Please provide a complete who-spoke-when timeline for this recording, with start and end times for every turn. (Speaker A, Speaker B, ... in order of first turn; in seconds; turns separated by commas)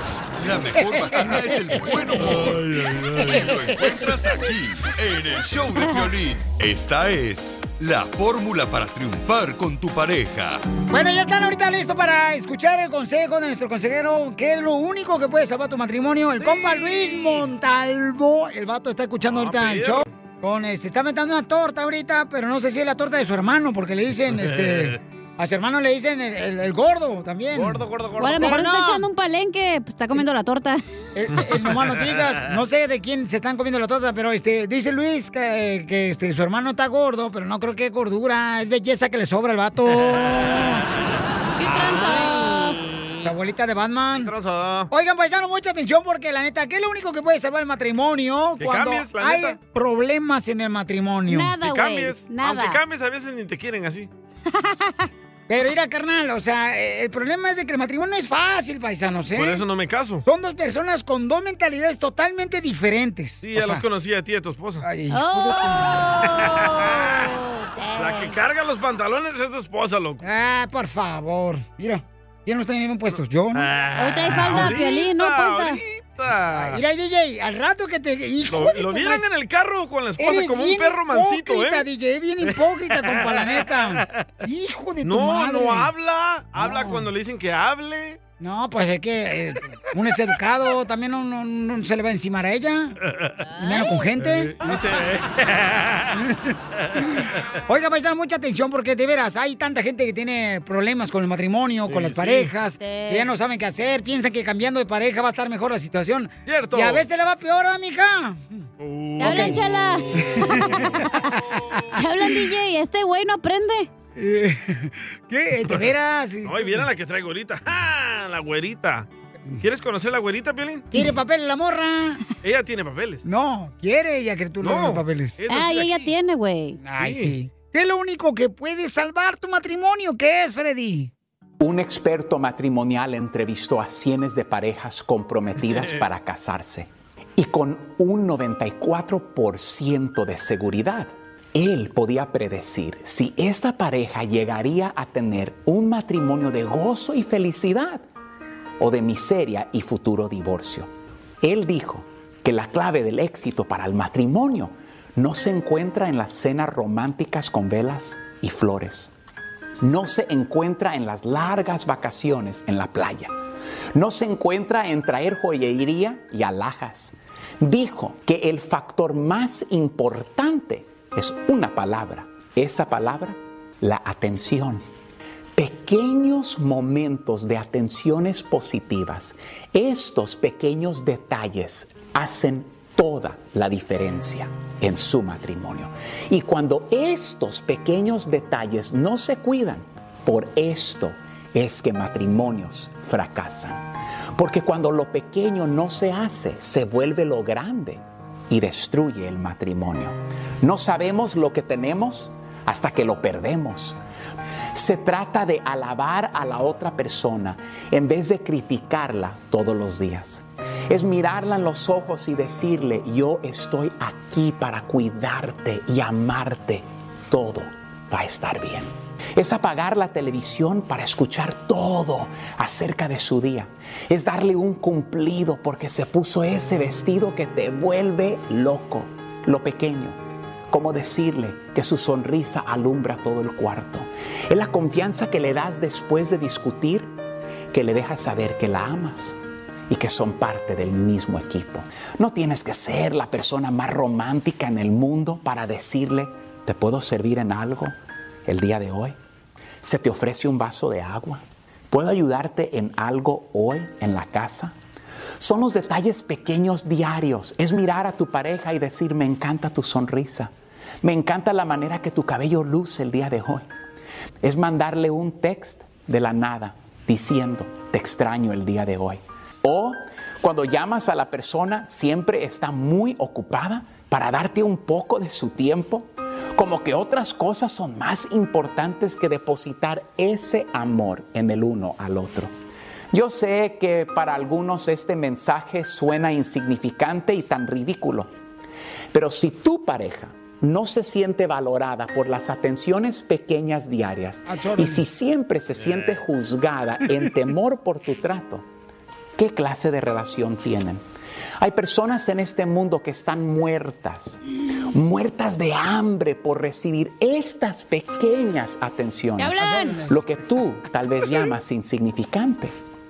Speaker A: 0.4-2.6, Speaker B: 1.1-1.4, Speaker C: 2.2-3.5, Speaker A: 3.2-10.6, Speaker B: 10.9-27.8, Speaker C: 16.4-17.4, Speaker C: 19.3-20.1, Speaker C: 24.3-25.0, Speaker C: 27.5-28.6, Speaker D: 28.2-30.8, Speaker B: 28.4-29.1, Speaker B: 31.1-40.8, Speaker C: 31.4-32.4, Speaker D: 41.6-42.8, Speaker C: 42.2-42.5, Speaker B: 43.2-44.3, Speaker C: 44.2-44.9, Speaker B: 44.9-51.5, Speaker C: 48.6-49.6, Speaker D: 51.3-52.8, Speaker C: 51.6-54.1, Speaker D: 54.6-55.1, Speaker B: 55.5-59.6, Speaker C: 59.4-60.2, Speaker B: 60.2-63.8, Speaker C: 63.4-64.8, Speaker B: 64.8-66.0, Speaker D: 65.1-68.3, Speaker C: 66.2-67.1, Speaker C: 68.0-70.2, Speaker B: 70.2-73.7, Speaker C: 73.5-76.8, Speaker D: 74.0-75.8, Speaker B: 76.5-79.2, Speaker C: 78.5-81.9, Speaker B: 80.2-85.9, Speaker C: 82.4-84.3, Speaker C: 85.0-88.2, Speaker B: 86.5-87.0, Speaker B: 88.4-93.0, Speaker D: 93.6-93.9, Speaker B: 93.6-94.6, Speaker C: 94.2-96.2, Speaker C: 96.8-97.1, Speaker B: 97.0-108.7, Speaker C: 101.9-102.5, Speaker D: 102.8-103.3, Speaker C: 106.5-107.0, Speaker C: 108.8-110.7, Speaker D: 109.2-110.9, Speaker B: 109.2-109.6, Speaker D: 112.0-113.9, Speaker B: 114.2-116.8, Speaker C: 116.4-119.1, Speaker C: 119.6-120.9, Speaker B: 120.9-122.2, Speaker C: 122.4-123.2, Speaker B: 123.2-125.4, Speaker C: 124.6-126.2, Speaker D: 125.5-126.8, Speaker B: 126.8-131.1, Speaker C: 127.0-127.3, Speaker E: 131.6-148.0, Speaker C: 135.6-136.0, Speaker E: 148.8-150.9, Speaker E: 151.4-159.1, Speaker E: 159.8-163.3, Speaker E: 163.9-174.8, Speaker E: 175.6-193.8, Speaker E: 194.4-204.0, Speaker E: 204.7-230.2, Speaker E: 230.7-237.2, Speaker E: 237.7-239.4, Speaker E: 239.9-247.9, Speaker E: 248.5-249.2, Speaker E: 249.8-254.8, Speaker E: 255.4-260.5, Speaker E: 261.0-263.6, Speaker E: 264.4-282.5, Speaker E: 283.1-288.3, Speaker E: 289.1-298.6, Speaker B: 294.5-295.1, Speaker C: 295.8-296.2, Speaker E: 299.4-301.0, Speaker E: 301.6-304.4, Speaker E: 304.9-312.7, Speaker D: 309.4-310.0, Speaker B: 309.6-310.2